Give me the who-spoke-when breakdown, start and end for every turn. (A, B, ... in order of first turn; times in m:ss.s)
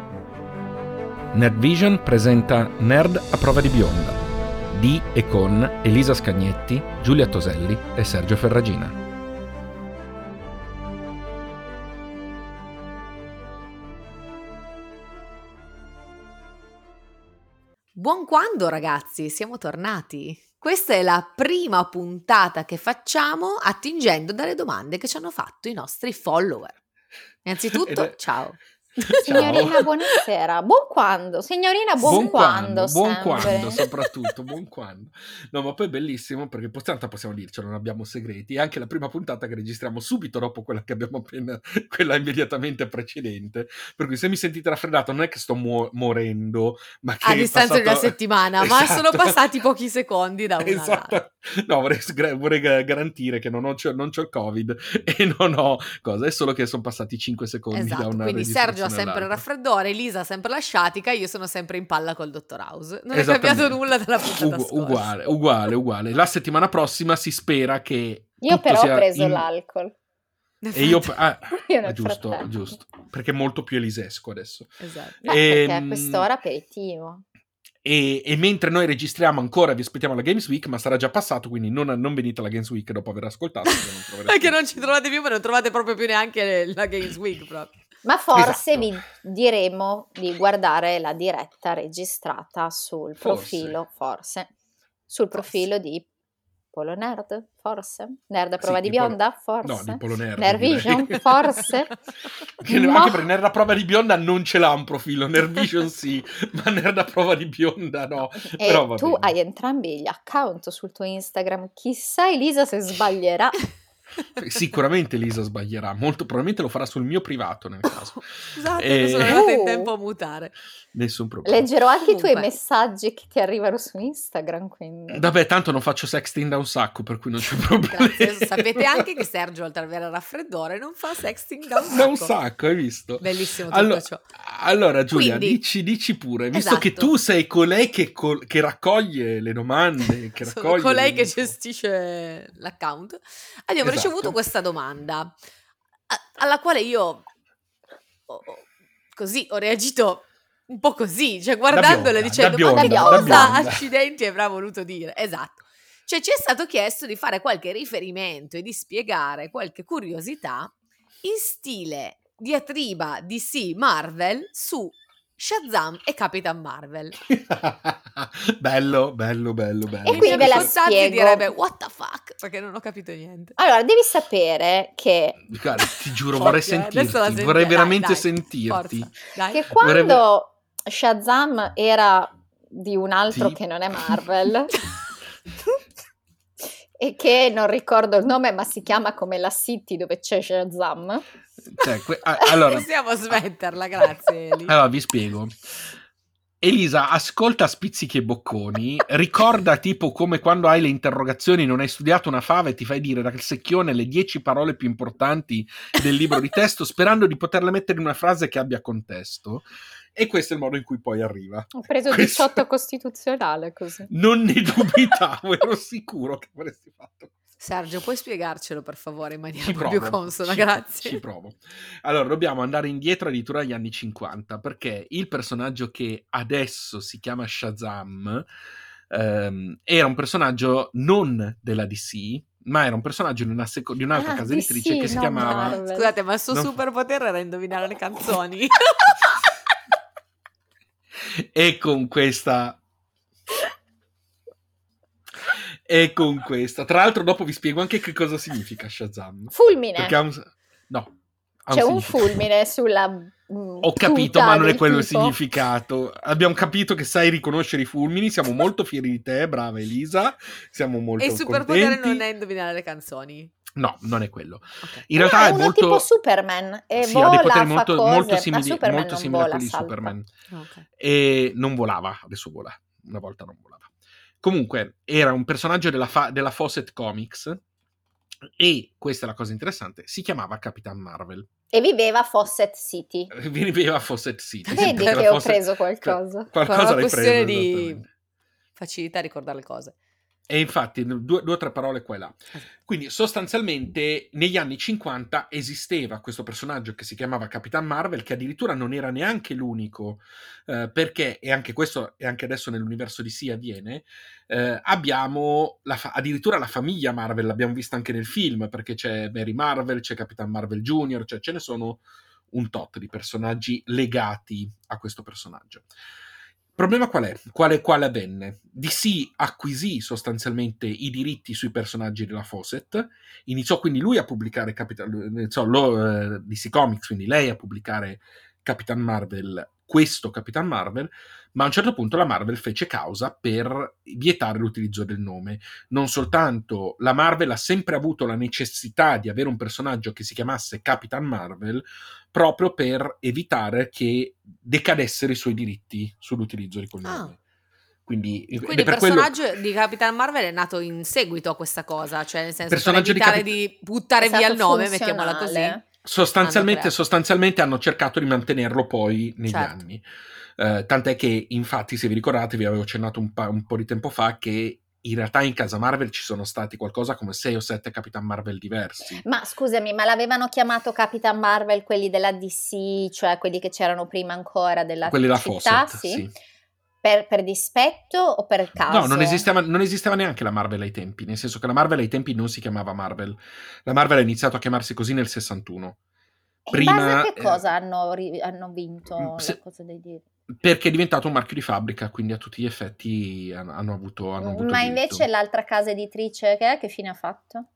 0:01.3-0:09.0 A
0:18.0-0:26.8 B
0:27.4-0:29.7 B
0:27.8-0:28.1 A
0:29.1-0:29.9 A
0:29.2-0:33.8 C
0:32.0-0:49.4 A
0:32.0-0:32.4 B
0:33.4-0:34.1 B
0:47.2-0:51.2 B
0:50.6-0:59.4 A
0:57.7-1:05.3 B
1:03.1-1:09.5 A
1:08.4-1:10.0 C
1:10.6-1:11.1 B
1:10.7-1:16.3 A
1:11.5-1:12.6 C
1:14.8-1:15.2 B
1:15.3-1:17.2 C
1:17.8-1:25.0 A
1:23.7-1:27.7 B
1:28.0-1:34.5 C
1:28.3-1:28.9 A
1:33.2-1:33.8 A
1:35.1-1:36.1 C
1:36.7-1:42.0 C
1:38.6-1:41.6 A
1:42.6-1:49.3 A
1:42.6-1:43.3 C
1:48.5-1:53.7 C
1:54.4-1:59.4 A
1:57.9-2:00.6 B
1:59.2-1:59.9 C
2:00.9-2:01.7 A
2:01.5-2:05.3 C
2:02.0-2:02.5 B
2:05.1-2:09.2 A
2:07.7-2:12.4 B
2:11.8-2:21.6 A
2:13.2-2:14.2 B
2:15.1-2:15.6 B
2:16.5-2:17.1 B
2:20.4-2:25.4 B
2:23.8-2:24.4 A
2:26.1-2:27.2 B
2:28.3-2:47.2 B
2:31.7-2:33.8 A
2:32.7-2:33.6 C
2:47.2-2:50.7 A
2:50.1-2:51.5 C
2:50.1-2:53.6 B
2:53.6-2:55.4 C
2:55.5-2:59.1 A
2:56.3-2:59.7 B
2:59.5-3:04.8 C
2:59.8-3:00.2 A
3:03.3-3:03.6 A
3:07.0-3:11.3 C
3:11.7-3:12.9 A
3:12.4-3:14.8 B
3:14.7-3:15.8 A
3:16.6-3:32.6 A
3:31.7-3:34.1 C
3:34.1-3:37.3 A
3:37.6-3:41.2 B
3:39.6-3:48.5 A
3:49.1-3:55.8 A
3:54.2-3:56.1 C
3:55.1-3:59.4 B
4:01.2-4:02.8 A
4:05.4-4:11.2 A
4:09.5-4:10.2 C
4:11.7-4:12.4 A
4:11.7-4:15.4 C
4:13.8-4:22.2 A
4:21.2-4:23.5 B
4:23.7-4:26.1 A
4:25.2-4:30.1 C
4:27.0-4:30.3 A
4:30.5-4:30.8 B
4:31.0-4:33.9 A
4:34.4-4:37.6 A
4:38.4-4:41.5 A
4:41.7-4:43.3 C
4:43.3-4:48.1 A
4:44.7-4:45.2 B
4:44.7-4:46.5 C
4:46.6-4:48.0 B
4:48.8-4:50.0 B
4:50.5-5:15.9 A
5:16.8-5:47.4 A
5:47.0-5:47.4 B
5:48.1-5:49.4 A
5:48.6-5:55.8 B
5:52.7-5:53.5 A
5:54.2-5:55.8 C
5:56.0-6:00.0 A
5:56.4-5:56.9 B
5:59.5-5:59.8 B
6:00.6-6:09.2 A
6:09.2-6:16.3 C
6:15.0-6:16.3 A
6:17.0-6:19.4 C
6:18.9-6:26.0 A
6:26.7-6:30.2 C
6:26.7-6:27.7 A
6:29.2-6:29.6 A
6:30.5-6:35.3 A
6:34.4-6:37.7 C